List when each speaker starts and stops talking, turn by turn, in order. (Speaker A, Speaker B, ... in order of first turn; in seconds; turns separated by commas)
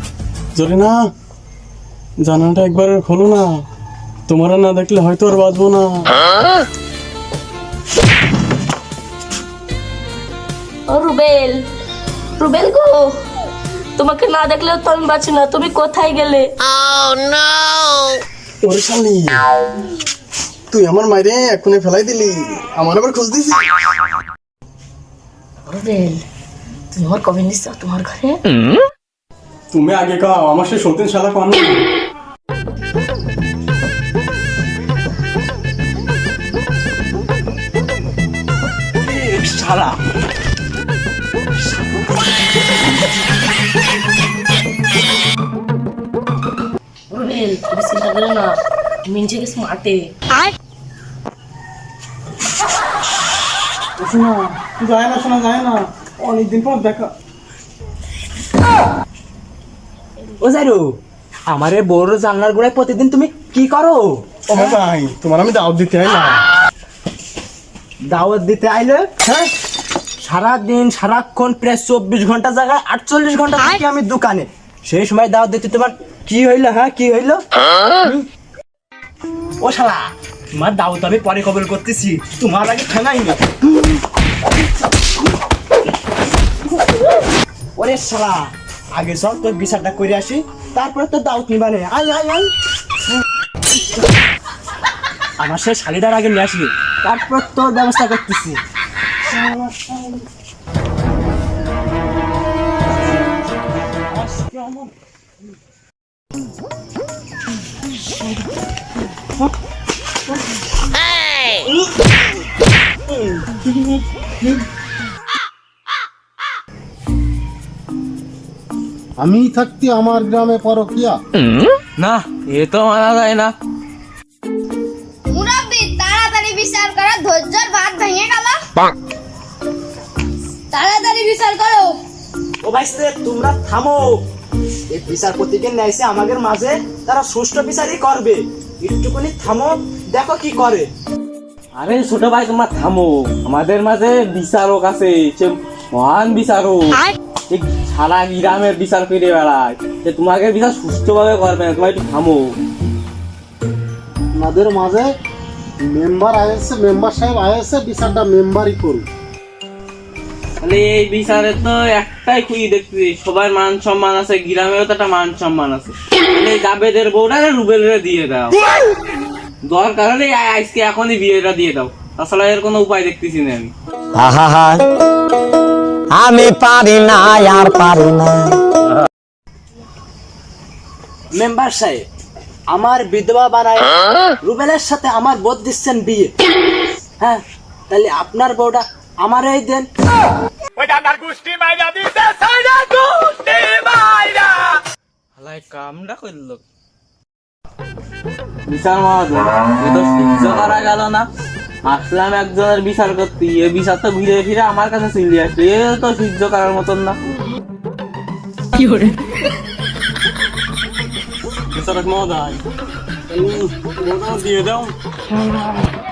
Speaker A: 0.5-1.1, Speaker A: 2.2-3.6, Speaker A: 4.3-6.1, Speaker B: 10.9-11.6, Speaker B: 12.4-13.2, Speaker B: 13.9-16.5, Speaker A: 18.6-19.4, Speaker A: 20.7-23.6, Speaker B: 25.7-26.2, Speaker B: 26.9-28.4, Speaker A: 29.7-31.8, Speaker C: 39.0-39.9, Speaker B: 47.1-50.1, Speaker A: 54.0-57.1, Speaker C: 60.4-60.8, Speaker C: 61.5-64.2, Speaker A: 64.5-66.4, Speaker C: 68.1-69.1, Speaker C: 70.2-77.4, Speaker C: 79.6-80.0, Speaker C: 80.5-83.6, Speaker C: 87.8-92.5, Speaker C: 95.4-98.6, Speaker C: 99.4-99.9, Speaker C: 104.1-104.7, Speaker D: 119.2-121.2, Speaker E: 122.0-123.5, Speaker F: 125.3-128.6, Speaker F: 130.7-132.0, Speaker C: 132.6-134.1, Speaker C: 134.9-140.9, Speaker E: 141.8-152.6, Speaker D: 154.4-155.1, Speaker D: 155.8-159.0, Speaker E: 160.6-168.6, Speaker E: 169.7-173.7, Speaker G: 174.1-174.8, Speaker G: 176.1-178.6, Speaker C: 181.3-182.0, Speaker C: 182.7-183.9, Speaker C: 184.4-186.3, Speaker C: 187.2-189.8, Speaker E: 190.8-194.8, Speaker E: 195.4-196.6, Speaker E: 198.7-201.3, Speaker E: 201.8-207.2, Speaker B: 208.7-209.2, Speaker A: 211.7-212.6, Speaker A: 213.3-214.9